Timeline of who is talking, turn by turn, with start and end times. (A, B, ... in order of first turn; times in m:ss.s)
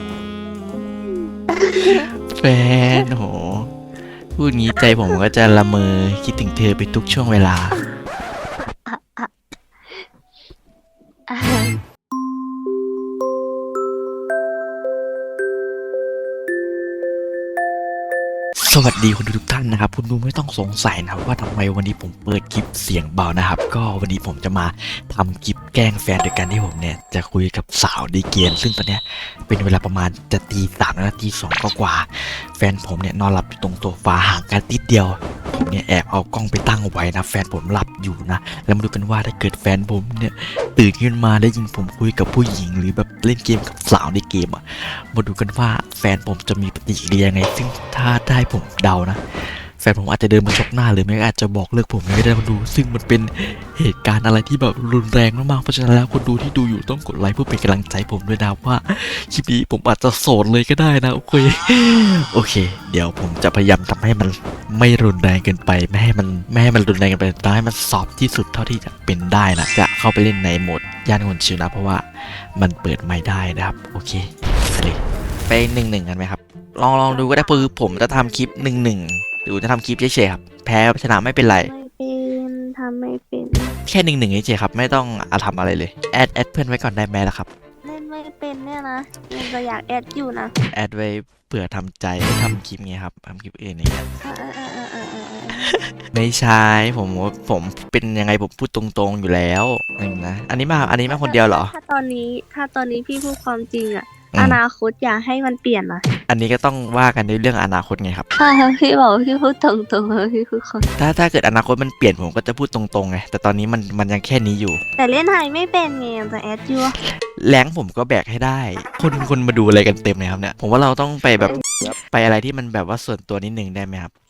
0:01.6-0:02.0 A
0:02.3-0:03.7 B
0:04.4-0:07.8 B
0:08.7-0:09.3 A
0:11.3-0:11.8 A
0:18.6-0:49.2 B
0:49.8-1:21.7 B
1:17.1-1:17.7 A
1:21.4-1:23.7 A
1:23.8-1:27.5 B
1:27.8-1:30.5 A
1:30.7-1:34.0 B
1:34.2-1:35.8 A
1:36.0-1:41.7 B
1:41.1-1:46.0 A
1:44.3-1:44.6 B
1:46.3-1:48.3 B
1:48.4-1:50.9 A
1:51.0-1:54.8 B
1:55.0-1:57.0 A
1:57.4-2:04.1 B